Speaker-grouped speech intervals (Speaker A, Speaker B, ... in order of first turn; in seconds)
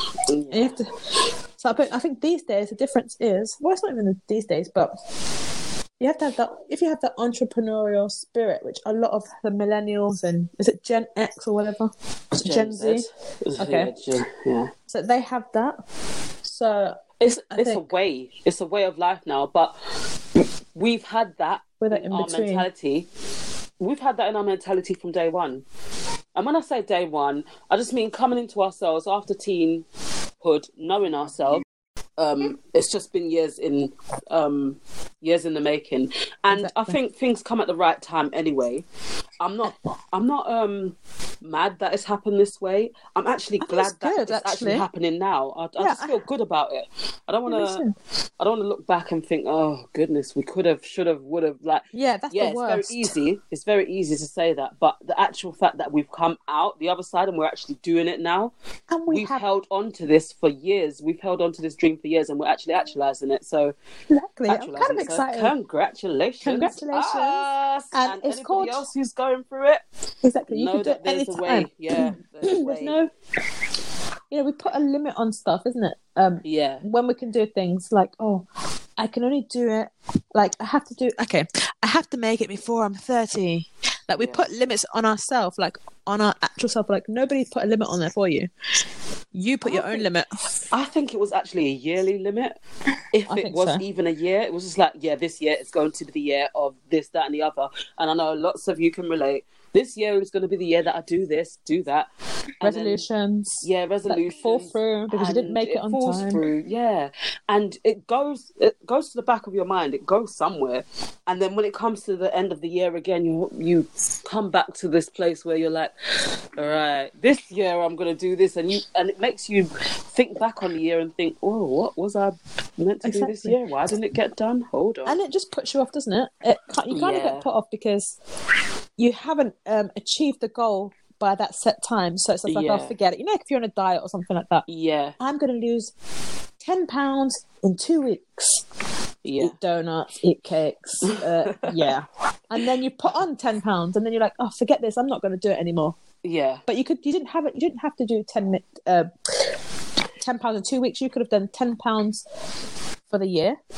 Speaker A: 0.3-0.8, 12.4-14.7, 17.2-19.7, 20.7-23.1, 23.8-25.6, 26.4-29.8, 30.4-31.6, 32.2-38.9, 39.4-47.8, 48.4-58.5, 59.1-63.7, 64.5-69.8, 70.5-73.0, 76.4-76.8, 84.2-84.5, 89.6-90.1, 90.7-92.6, 93.1-102.1, 102.6-103.0, 103.6-115.9, 116.5-125.2, 126.9-127.5, 132.4-132.9, 134.7-135.2, 139.2-139.6, 146.2-146.6
Speaker B: 0.5-1.1, 1.6-4.9, 6.0-13.0, 13.6-13.9, 14.9-15.8, 16.4-16.9, 17.5-17.9, 21.8-22.6, 36.5-37.0, 43.6-44.9, 45.8-46.2, 47.5-47.9, 51.9-53.1, 58.9-59.4, 64.1-65.5, 66.4-68.8, 70.2-73.1, 74.3-78.5, 79.0-88.5, 89.3-90.6, 93.3-93.8, 102.6-106.5, 123.0-123.5, 125.0-128.2, 129.0-134.6, 135.2-135.9, 136.6-138.6, 139.4-145.9, 146.7-149.5, 150.2-152.2, 153.1-153.6